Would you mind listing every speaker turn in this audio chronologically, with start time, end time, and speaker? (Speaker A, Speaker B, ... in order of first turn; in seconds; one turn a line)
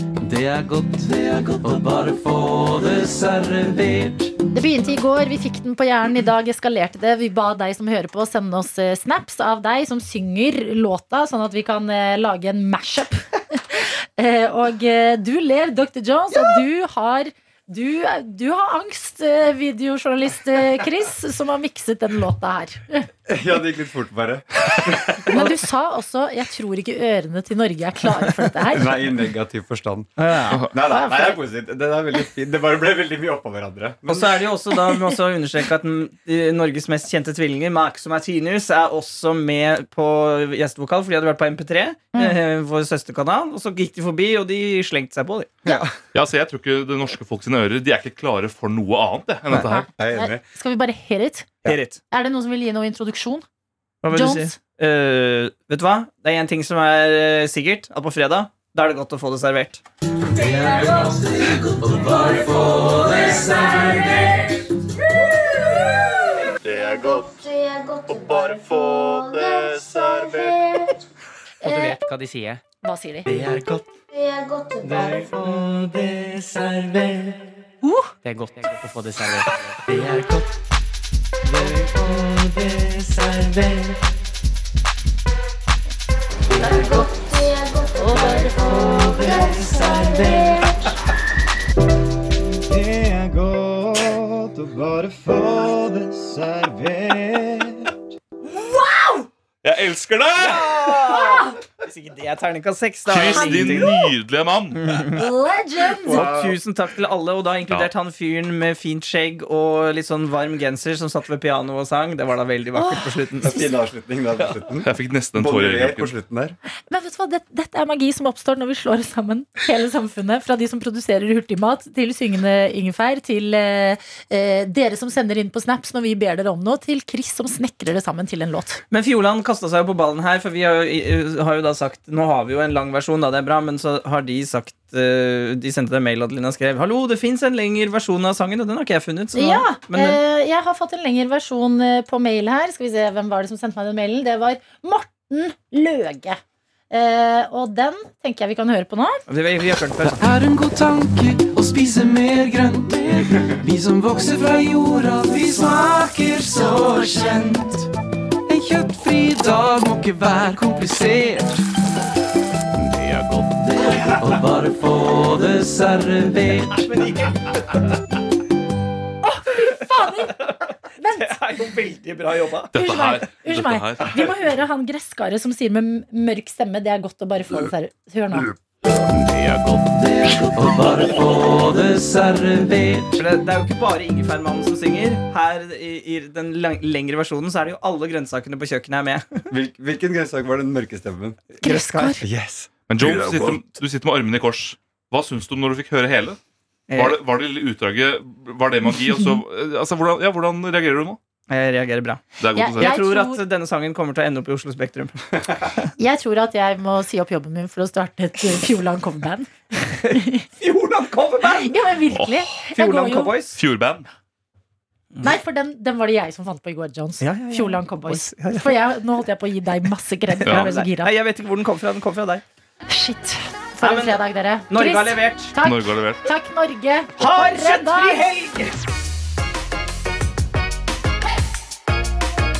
Speaker A: 0.2-4.3
Speaker B: 4.5-23.1
Speaker C: 23.3-25.5
Speaker B: 25.3-29.0
Speaker C: 28.7-30.1
Speaker D: 30.2-30.6
Speaker C: 30.7-35.0
Speaker B: 30.8-31.4
Speaker D: 34.1-45.8
Speaker E: 46.1-49.9
Speaker B: 49.6-51.5
Speaker C: 50.0-50.4
Speaker D: 51.6-52.0
Speaker B: 52.1-53.4
Speaker D: 54.0-59.8
Speaker B: 54.1-54.5
Speaker A: 60.4-64.4
Speaker F: 66.6-71.0
Speaker B: 71.6-72.0
Speaker G: 71.6-72.6
Speaker B: 72.8-73.3
Speaker A: 73.3-73.6
Speaker F: 74.1-75.3
Speaker A: 74.8-77.2
Speaker B: 77.8-78.1
Speaker G: 78.2-79.7
Speaker A: 79.9-80.4
Speaker A: 81.5-83.9
Speaker A: 86.5-87.0
Speaker F: 86.5-90.8
Speaker A: 88.0-90.8
Speaker C: 92.7-97.9
Speaker B: 98.5-99.3
Speaker E: 99.6-101.0
Speaker D: 100.4-103.9
Speaker B: 101.0-101.6
Speaker E: 103.1-105.1
Speaker B: 103.3-104.1
Speaker D: 104.8-105.2
Speaker B: 105.1-106.2
Speaker D: 106.0-113.7
Speaker C: 106.1-106.6
Speaker B: 112.8-113.0
Speaker C: 113.4-116.5
Speaker E: 114.8-116.1
Speaker B: 116.9-128.8
Speaker D: 128.9-140.2
Speaker B: 139.3-146.4
Speaker B: 146.9-149.2
Speaker D: 149.3-150.2
Speaker A: 150.1-157.9
Speaker A: 158.5-161.6
Speaker A: 162.8-166.8
Speaker D: 166.7-167.3
Speaker B: 169.2-170.4
Speaker B: 171.0-171.4
Speaker D: 171.2-172.7
Speaker E: 172.7-174.2
Speaker B: 172.7-178.5
Speaker A: 178.9-183.2
Speaker D: 183.2-189.5
Speaker C: 189.5-193.7
Speaker D: 191.5-192.2
Speaker B: 191.6-192.2
Speaker E: 192.9-196.4
Speaker D: 196.9-197.2
Speaker E: 196.9-201.2
Speaker D: 201.5-202.2
Speaker E: 202.4-202.9
Speaker B: 202.5-203.4
Speaker D: 202.8-205.9
Speaker B: 206.0-210.4
Speaker D: 210.6-211.8
Speaker B: 211.6-213.3
Speaker E: 212.1-212.5
Speaker D: 212.7-213.6
Speaker E: 213.5-214.1
Speaker B: 215.2-221.1
Speaker D: 217.2-218.7
Speaker D: 220.4-222.4
Speaker B: 222.9-228.2
Speaker D: 223.8-225.5
Speaker E: 225.6-226.2
Speaker D: 227.2-228.7